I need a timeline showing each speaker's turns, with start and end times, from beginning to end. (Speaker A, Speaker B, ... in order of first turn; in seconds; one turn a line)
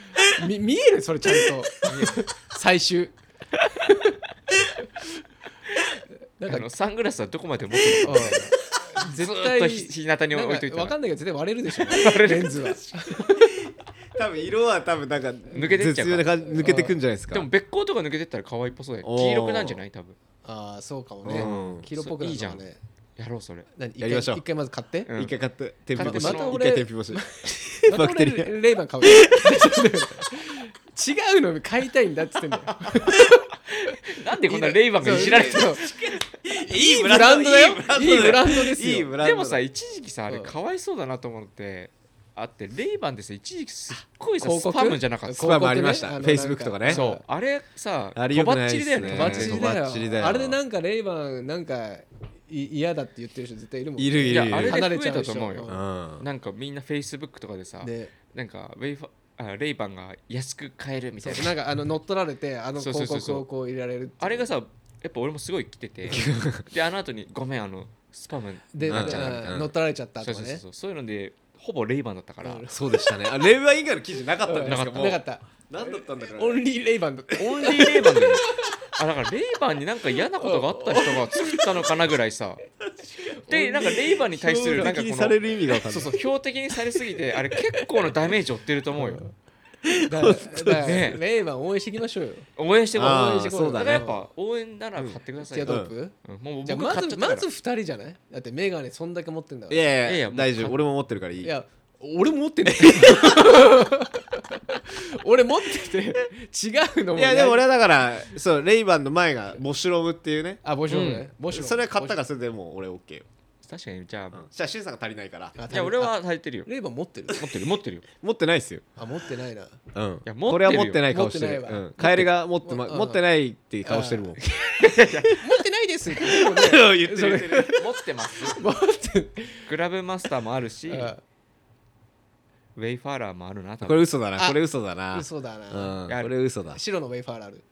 Speaker A: 0.3-3.2
Speaker B: 1.9-2.2
Speaker A: 3.9-4.2
Speaker A: 6.4-6.7
Speaker B: 6.5-8.5
Speaker A: 8.0-13.6
Speaker B: 9.0-11.0
Speaker B: 11.8-12.8
Speaker C: 12.9-17.5
Speaker B: 15.5-20.2
Speaker A: 16.5-16.9
Speaker C: 19.0-19.8
Speaker A: 20.4-22.8
Speaker C: 21.2-21.8
Speaker B: 21.3-23.7
Speaker A: 23.8-25.1
Speaker C: 24.0-24.4
Speaker B: 25.1-25.4
Speaker C: 25.2-27.3
Speaker B: 25.9-26.6
Speaker A: 26.0-34.0
Speaker C: 27.8-29.6
Speaker B: 32.7-35.9
Speaker A: 34.5-35.9
Speaker C: 35.0-39.6
Speaker A: 36.6-39.1
Speaker B: 39.2-45.5
Speaker A: 40.3-40.5
Speaker A: 44.4-47.2
Speaker C: 45.3-47.0
Speaker B: 46.9-49.7
Speaker C: 48.2-50.6
Speaker A: 49.1-55.8
Speaker C: 54.0-54.8
Speaker B: 54.3-61.6
Speaker C: 55.7-56.3
Speaker A: 57.8-58.1
Speaker A: 61.2-64.5
Speaker B: 62.8-63.5
Speaker B: 64.2-69.6
Speaker C: 66.1-66.7
Speaker A: 68.7-70.6
Speaker C: 68.9-69.7
Speaker B: 70.2-72.6
Speaker A: 72.4-73.1
Speaker C: 72.7-76.6
Speaker A: 74.4-78.7
Speaker B: 74.7-75.1
Speaker B: 77.4-82.6
Speaker A: 80.4-81.9
Speaker A: 83.1-84.2
Speaker B: 83.5-89.2
Speaker C: 84.3-86.2
Speaker A: 89.0-89.3
Speaker C: 89.8-91.1
Speaker A: 90.1-94.2
Speaker B: 90.8-91.2
Speaker B: 92.6-97.5
Speaker C: 93.0-94.1
Speaker C: 95.0-95.9
Speaker A: 95.4-100.0
Speaker C: 99.7-101.5
Speaker B: 100.0-100.8
Speaker A: 101.4-107.7
Speaker C: 107.2-110.6
Speaker A: 110.6-112.2
Speaker B: 110.9-111.3
Speaker C: 111.5-113.3
Speaker B: 113.6-114.5
Speaker C: 114.3-115.6
Speaker A: 115.6-117.5
Speaker B: 115.7-116.7
Speaker B: 117.3-118.1
Speaker C: 118.2-118.8
Speaker A: 119.0-119.8
Speaker C: 119.9-124.4
Speaker B: 120.3-121.0
Speaker A: 121.0-123.2
Speaker B: 122.0-122.3
Speaker A: 123.8-124.8
Speaker B: 124.8-125.4
Speaker A: 125.4-127.8
Speaker C: 126.2-127.9
Speaker B: 127.8-128.7
Speaker A: 128.6-129.7
Speaker B: 129.7-131.1
Speaker A: 130.9-131.2
Speaker B: 132.8-134.1
Speaker C: 133.8-136.8
Speaker A: 135.1-136.0
Speaker B: 136.1-136.3
Speaker A: 136.7-137.6